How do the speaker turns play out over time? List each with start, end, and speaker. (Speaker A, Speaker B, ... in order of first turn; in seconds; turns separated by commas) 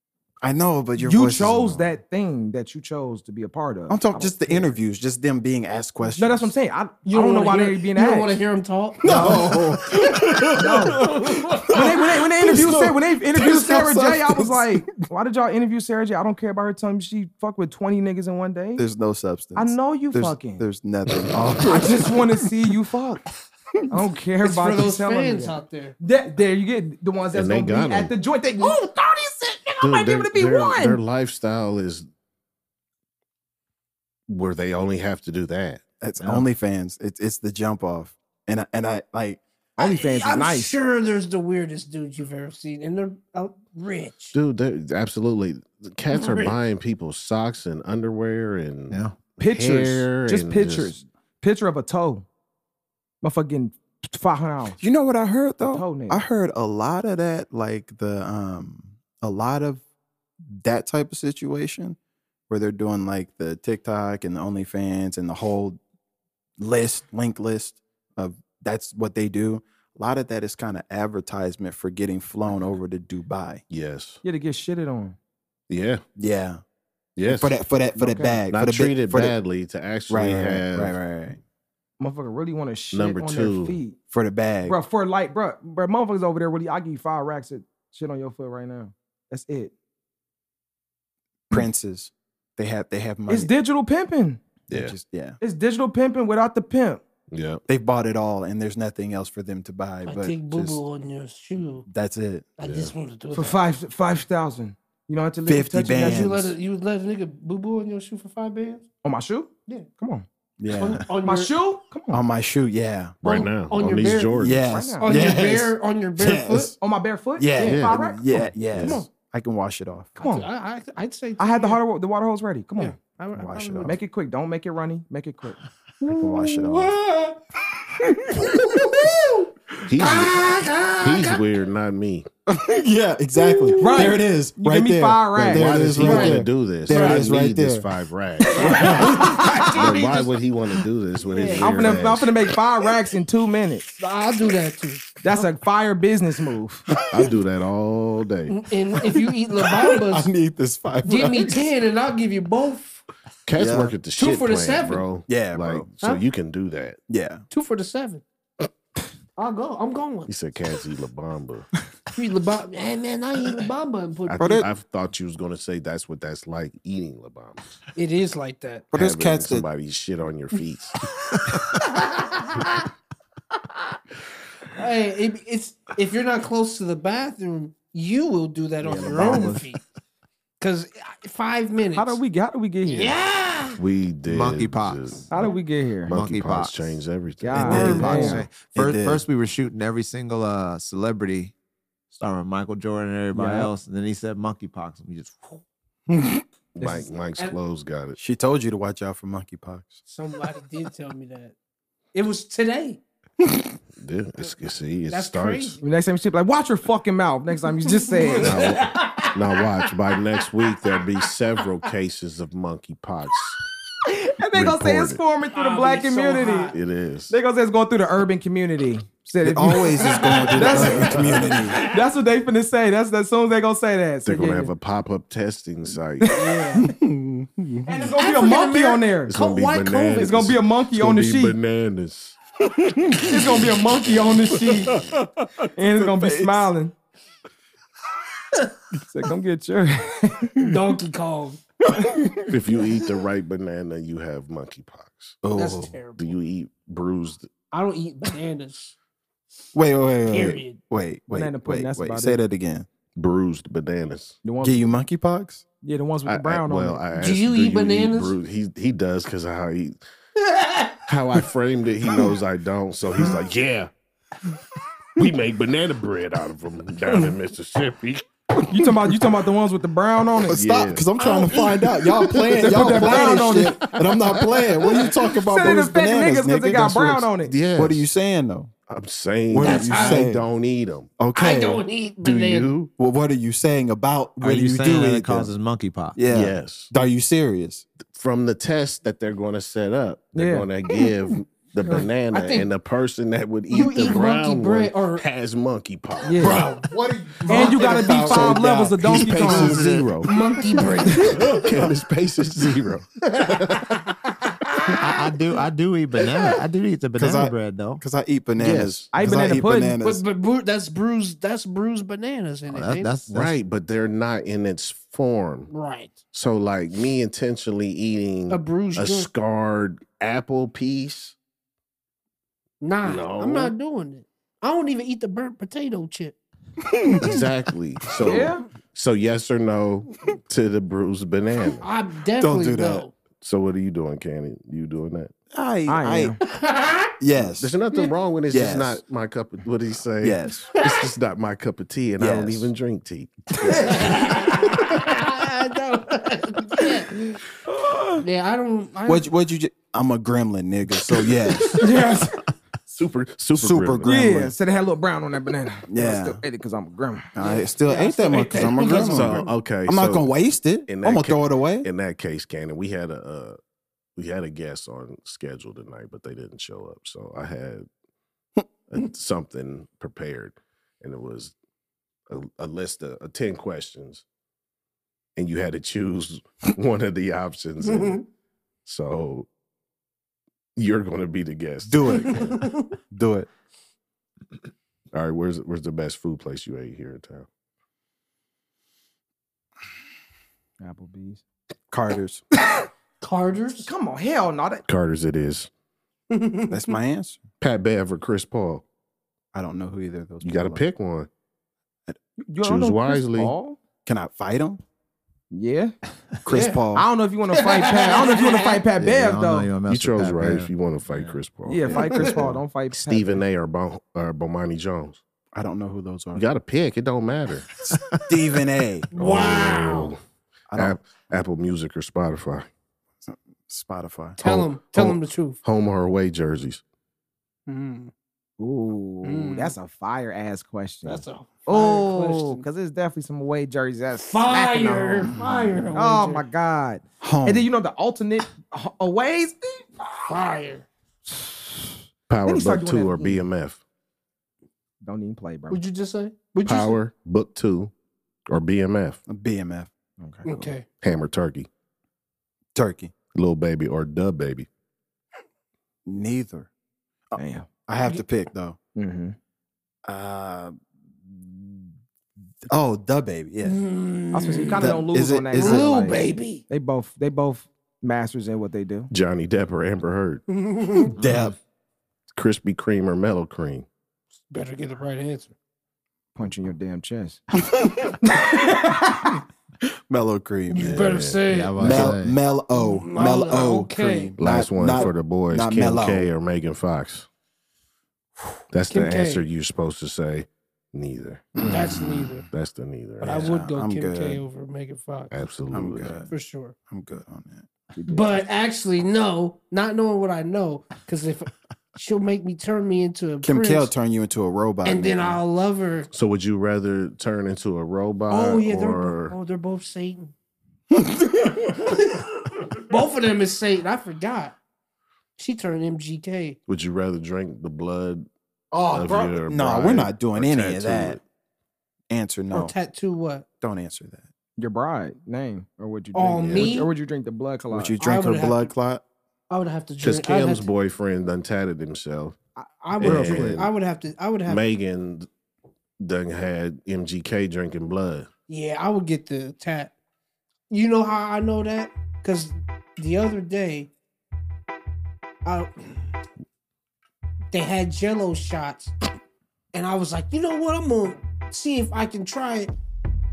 Speaker A: 0.4-1.9, Speaker B: 1.0-4.7, Speaker A: 3.9-6.5, Speaker B: 6.2-8.3, Speaker C: 7.0-9.4, Speaker A: 9.0-15.1, Speaker B: 9.1-9.4, Speaker B: 10.5-11.0, Speaker B: 11.7-18.8, Speaker A: 18.8-22.5, Speaker B: 19.5-20.6, Speaker B: 21.6-23.2, Speaker B: 23.9-31.0, Speaker C: 24.4-25.9, Speaker D: 27.3-28.1, Speaker D: 29.8-32.0, Speaker D: 34.3-36.5, Speaker A: 36.0-39.4, Speaker B: 39.8-40.8, Speaker C: 39.8-44.4, Speaker D: 44.3-50.9, Speaker C: 46.1-46.6, Speaker E: 48.9-49.2, Speaker B: 49.4-52.2, Speaker B: 53.2-54.8, Speaker A: 54.8-59.8, Speaker B: 55.6-56.2, Speaker A: 60.5-62.0, Speaker A: 62.5-65.8, Speaker A: 66.6-73.6, Speaker D: 73.7-74.2, Speaker B: 74.2-75.2, Speaker D: 75.7-76.0, Speaker A: 76.2-76.6, Speaker D: 77.2-77.5, Speaker A: 77.2-79.3, Speaker B: 77.9-78.4, Speaker D: 78.5-81.0, Speaker A: 80.1-81.4, Speaker B: 82.0-84.0, Speaker D: 82.9-83.8, Speaker A: 84.1-84.8, Speaker B: 84.7-89.7, Speaker A: 91.5-93.5, Speaker B: 93.3-94.4, Speaker D: 94.7-94.9, Speaker A: 94.7-95.4, Speaker B: 95.4-97.0, Speaker D: 97.3-97.6, Speaker A: 97.7-100.8, Speaker C: 100.0-101.9, Speaker A: 101.9-102.5, Speaker C: 102.6-103.6, Speaker D: 102.6-102.9, Speaker B: 103.3-106.3, Speaker A: 105.5-106.5, Speaker C: 106.0-108.9, Speaker B: 109.0-110.2, Speaker A: 110.6-111.1, Speaker C: 110.7-111.5, Speaker B: 111.2-112.2, Speaker A: 112.1-113.5, Speaker D: 113.2-114.6, Speaker C: 113.2-114.4, Speaker A: 114.3-116.8, Speaker B: 114.5-115.1, Speaker C: 115.0-116.7, Speaker B: 116.8-119.1, Speaker A: 117.4-120.1, Speaker D: 117.6-118.0, Speaker D: 118.7-119.0, Speaker C: 120.2-121.8, Speaker B: 120.2-120.5, Speaker B: 121.4-122.9, Speaker C: 122.8-123.9, Speaker A: 123.3-124.0, Speaker B: 123.8-125.6, Speaker A: 126.0-127.0, Speaker C: 126.4-127.4, Speaker A: 128.1-129.4, Speaker C: 128.4-129.1, Speaker D: 129.9-130.4, Speaker C: 130.0-131.4, Speaker D: 131.0-132.3, Speaker A: 132.5-137.9, Speaker B: 133.8-135.8, Speaker D: 135.5-139.2, Speaker C: 136.0-137.2, Speaker C: 138.5-140.3, Speaker A: 138.8-139.4, Speaker D: 139.7-142.3, Speaker C: 141.3-141.7, Speaker B: 141.6-143.8, Speaker A: 141.7-142.3, Speaker C: 144.0-145.5, Speaker B: 145.2-146.8, Speaker A: 146.9-147.3, Speaker D: 147.1-148.6, Speaker C: 148.5-150.3, Speaker A: 149.1-151.7, Speaker C: 151.0-153.0, Speaker D: 153.4-157.0, Speaker A: 153.6-154.0, Speaker C: 154.1-155.2, Speaker A: 155.2-155.9, Speaker A: 157.1-157.4, Speaker C: 157.5-158.2, Speaker C: 159.4-160.3, Speaker D: 160.3-161.7, Speaker C: 162.1-164.6, Speaker D: 164.3-167.7, Speaker A: 164.4-164.7, Speaker C: 167.9-168.9, Speaker A: 168.9-169.7, Speaker D: 168.9-171.0, Speaker C: 171.6-172.8, Speaker C: 174.8-179.8, Speaker A: 178.8-179.7, Speaker C: 180.6-182.2, Speaker B: 181.9-183.2, Speaker C: 182.8-183.8, Speaker D: 183.8-185.5, Speaker E: 184.2-185.5, Speaker B: 185.3-186.1, Speaker D: 186.1-188.1, Speaker E: 186.1-187.0, Speaker B: 187.4-188.5, Speaker A: 187.5-189.2, Speaker E: 187.7-191.5, Speaker E: 192.1-195.3, Speaker B: 193.3-193.7, Speaker A: 196.1-196.4, Speaker B: 196.8-197.1, Speaker D: 196.8-198.2, Speaker A: 198.2-200.0, Speaker C: 200.0-201.5, Speaker C: 202.1-203.0, Speaker D: 204.0-205.8, Speaker C: 205.1-205.8, Speaker B: 205.8-208.6, Speaker C: 208.1-209.8, Speaker D: 208.4-213.6, Speaker C: 210.4-211.2, Speaker B: 214.0-216.7, Speaker D: 214.5-215.2, Speaker C: 215.5-216.8, Speaker D: 216.7-217.3, Speaker B: 217.3-224.7, Speaker A: 219.4-221.8, Speaker C: 219.9-221.9, Speaker D: 220.5-221.6, Speaker D: 224.2-226.4, Speaker B: 226.4-226.7, Speaker C: 226.4-226.8, Speaker A: 226.8-227.9, Speaker B: 227.8-229.3, Speaker C: 228.2-230.3, Speaker D: 229.3-232.4, Speaker B: 230.2-231.6, Speaker A: 233.0-233.2, Speaker D: 233.1-234.1, Speaker B: 233.2-234.9, Speaker B: 235.7-236.9, Speaker A: 236.0-236.7, Speaker B: 239.1-240.6, Speaker C: 240.6-241.6, Speaker A: 241.9-242.6, Speaker D: 242.5-245.4, Speaker A: 245.4-245.9, Speaker C: 245.6-246.3, Speaker D: 246.2-247.5, Speaker C: 247.7-248.9, Speaker A: 249.7-252.9, Speaker C: 250.3-250.8, Speaker B: 251.3-252.4, Speaker D: 253.2-254.4, Speaker B: 254.4-254.9, Speaker A: 254.6-255.6, Speaker B: 255.8-257.0, Speaker D: 256.2-260.0, Speaker C: 257.2-258.3, Speaker C: 260.4-260.9, Speaker D: 261.1-263.9, Speaker D: 265.1-268.2, Speaker B: 268.7-270.6, Speaker A: 270.5-278.7, Speaker D: 270.5-271.1, Speaker C: 271.2-272.1, Speaker D: 272.3-275.1, Speaker B: 272.6-273.9, Speaker B: 275.3-277.6, Speaker D: 277.4-278.1, Speaker D: 278.9-281.1, Speaker A: 279.5-280.4, Speaker C: 279.6-280.2, Speaker A: 281.2-281.8, Speaker C: 281.3-282.7, Speaker D: 282.2-282.9, Speaker A: 283.0-285.5, Speaker E: 284.4-286.2, Speaker A: 286.1-287.9, Speaker D: 286.3-286.9, Speaker D: 288.1-296.8, Speaker B: 290.3-290.7, Speaker C: 292.3-292.7, Speaker C: 293.7-295.2, Speaker B: 296.2-296.6, Speaker C: 296.4-298.5, Speaker A: 297.0-297.8, Speaker B: 297.5-299.8, Speaker D: 297.5-304.0, Speaker E: 299.1-300.3, Speaker A: 299.6-300.0, Speaker C: 300.2-301.7, Speaker C: 303.4-304.1, Speaker E: 304.9-308.0, Speaker A: 307.2-310.2, Speaker D: 308.6-309.1, Speaker B: 309.1-309.9, Speaker C: 310.0-313.1, Speaker E: 312.7-313.6, Speaker D: 313.3-315.7, Speaker C: 315.7-316.2, Speaker D: 316.3-321.3, Speaker C: 318.5-319.3, Speaker C: 322.8-326.4, Speaker D: 323.0-323.7, Speaker A: 326.9-327.4, Speaker D: 327.2-331.9, Speaker B: 328.2-328.6, Speaker C: 331.8-333.1, Speaker A: 332.4-333.1, Speaker D: 333.4-335.3, Speaker A: 335.5-336.4, Speaker B: 335.9-336.4, Speaker C: 336.4-337.1, Speaker A: 337.2-337.7, Speaker D: 337.4-344.0, Speaker A: 338.5-339.0, Speaker A: 340.2-340.7, Speaker A: 342.2-342.7, Speaker A: 343.6-344.1, Speaker C: 343.6-347.1, Speaker B: 347.7-348.2, Speaker C: 348.2-349.3, Speaker A: 349.1-351.9, Speaker B: 351.7-352.4, Speaker D: 352.9-354.1, Speaker A: 353.6-354.5, Speaker B: 354.0-359.3, Speaker A: 355.9-356.4, Speaker A: 357.3-361.9, Speaker C: 357.9-359.4, Speaker D: 358.9-360.3, Speaker D: 360.9-363.6, Speaker D: 364.1-367.9, Speaker D: 368.9-371.5, Speaker D: 372.3-374.2, Speaker D: 375.4-378.2, Speaker C: 377.8-378.2, Speaker D: 378.9-379.5, Speaker D: 380.8-382.6, Speaker A: 381.8-383.5, Speaker C: 382.1-382.9, Speaker D: 385.1-387.5, Speaker B: 390.8-391.4, Speaker A: 391.9-392.4, Speaker C: 393.2-393.9, Speaker B: 393.9-394.8, Speaker D: 394.9-395.7, Speaker C: 396.3-396.9, Speaker A: 396.7-397.4, Speaker D: 397.6-398.8, Speaker A: 399.5-400.8, Speaker D: 400.4-401.3, Speaker B: 402.4-403.8, Speaker D: 402.6-403.5, Speaker A: 404.0-404.8, Speaker B: 405.5-405.9, Speaker A: 406.4-407.1, Speaker C: 406.5-406.8, Speaker B: 406.9-409.7, Speaker C: 407.5-408.8, Speaker E: 409.0-411.4, Speaker D: 409.9-412.3, Speaker B: 411.7-413.4, Speaker A: 411.9-412.6, Speaker C: 411.9-412.4, Speaker D: 412.9-415.2, Speaker A: 415.5-416.4, Speaker D: 416.3-417.7, Speaker A: 417.9-419.1, Speaker C: 419.1-420.1, Speaker D: 419.1-420.2, Speaker A: 420.7-421.0, Speaker D: 420.7-422.7, Speaker A: 423.2-424.4, Speaker C: 424.4-425.6, Speaker D: 424.4-426.8, Speaker C: 427.7-428.1, Speaker B: 428.6-435.3, Speaker C: 429.2-429.7, Speaker C: 431.0-432.6, Speaker C: 434.2-436.5, Speaker B: 435.9-440.0, Speaker A: 437.2-437.7, Speaker C: 440.2-440.9, Speaker D: 442.3-443.8, Speaker B: 442.4-443.4, Speaker B: 445.0-445.8, Speaker C: 445.7-446.9, Speaker D: 446.6-447.9, Speaker D: 448.5-449.2, Speaker A: 449.3-449.9, Speaker B: 450.2-450.7, Speaker C: 450.4-450.9, Speaker D: 451.0-451.7, Speaker A: 452.7-453.1, Speaker D: 453.3-454.7, Speaker A: 456.1-456.7, Speaker A: 457.3-458.8, Speaker B: 457.4-457.7, Speaker B: 458.9-459.4, Speaker A: 460.1-461.9, Speaker A: 462.7-463.8, Speaker C: 463.6-464.9, Speaker B: 464.3-469.1, Speaker A: 464.8-466.2, Speaker C: 465.5-466.6, Speaker D: 469.1-470.4, Speaker C: 470.5-471.2, Speaker E: 471.2-471.5, Speaker A: 471.2-471.6, Speaker D: 472.3-473.9, Speaker C: 474.5-475.5, Speaker B: 476.3-477.4, Speaker A: 477.7-478.5, Speaker A: 480.1-481.2, Speaker C: 480.7-482.0, Speaker D: 480.8-482.1, Speaker E: 481.5-482.4, Speaker A: 481.8-486.3, Speaker C: 482.7-484.3, Speaker D: 484.4-487.3, Speaker D: 488.7-491.9, Speaker C: 488.9-489.4, Speaker A: 491.6-492.3, Speaker C: 491.6-492.4, Speaker D: 492.5-493.6, Speaker C: 493.2-495.3, Speaker A: 493.3-494.4, Speaker D: 495.3-496.2, Speaker A: 495.7-496.3, Speaker C: 496.3-496.7, Speaker A: 496.9-497.7, Speaker B: 498.0-498.4, Speaker C: 498.1-503.9, Speaker A: 503.4-505.4, Speaker C: 504.8-506.1, Speaker D: 506.1-509.3, Speaker C: 508.3-510.3, Speaker A: 510.9-511.7, Speaker C: 511.7-514.5, Speaker C: 515.4-516.6, Speaker D: 516.7-518.3, Speaker A: 518.7-521.2, Speaker D: 518.9-521.2, Speaker A: 522.1-522.7, Speaker C: 522.5-523.5, Speaker A: 523.6-524.3, Speaker B: 524.6-528.0, Speaker C: 526.1-526.9, Speaker D: 526.4-526.7, Speaker A: 527.7-529.0, Speaker C: 528.0-528.7, Speaker C: 529.5-530.7, Speaker D: 530.0-532.4, Speaker C: 532.6-534.6, Speaker D: 533.0-533.7, Speaker B: 533.0-533.6, Speaker D: 534.5-535.3, Speaker D: 536.0-538.3, Speaker C: 538.5-539.9, Speaker C: 540.7-543.9, Speaker C: 545.4-545.7, Speaker C: 547.5-548.9, Speaker C: 549.7-552.7